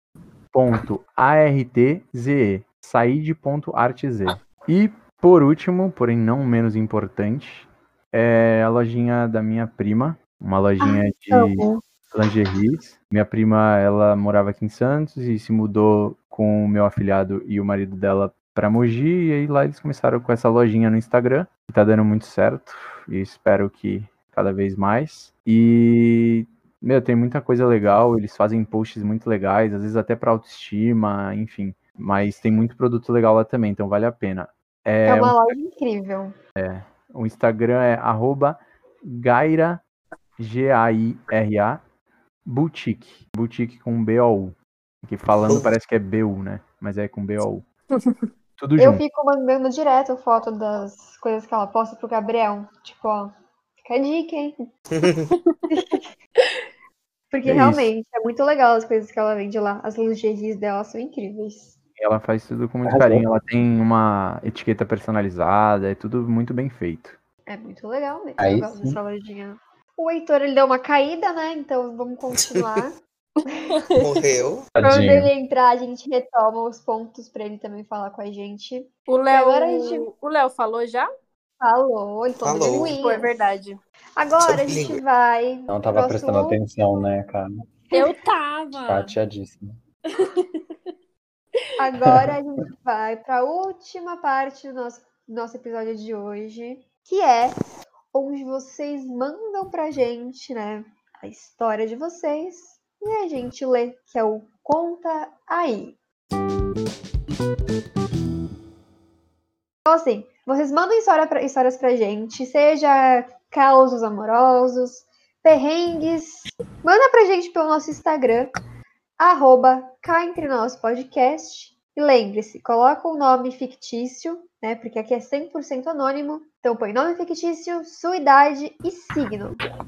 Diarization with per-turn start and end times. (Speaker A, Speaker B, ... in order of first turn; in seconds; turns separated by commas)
Speaker A: 0.5-35.5, Speaker B: 10.8-11.8, Speaker B: 35.0-36.3, Speaker A: 36.6-39.8, Speaker A: 40.4-41.8, Speaker A: 42.4-47.6, Speaker C: 45.5-45.7, Speaker D: 47.9-48.2, Speaker A: 48.6-49.0, Speaker B: 48.8-54.7, Speaker C: 54.9-55.3, Speaker B: 55.7-56.1, Speaker B: 57.3-61.8, Speaker A: 57.5-57.9, Speaker A: 62.0-67.2, Speaker E: 62.9-63.2, Speaker B: 67.5-73.0, Speaker E: 68.4-69.0, Speaker C: 72.4-72.8, Speaker B: 73.5-73.8, Speaker C: 74.0-74.7, Speaker E: 74.7-75.3, Speaker B: 74.8-80.1, Speaker D: 79.1-81.1, Speaker B: 81.6-83.4, Speaker C: 82.4-82.9, Speaker D: 82.7-83.8, Speaker B: 84.2-86.6, Speaker C: 84.4-85.0, Speaker E: 85.7-87.6, Speaker D: 87.9-89.1, Speaker E: 88.8-89.8, Speaker D: 90.1-90.6, Speaker B: 91.8-97.6, Speaker E: 92.0-92.3, Speaker B: 98.1-106.0, Speaker B: 109.9-118.5, Speaker B: 119.2-129.6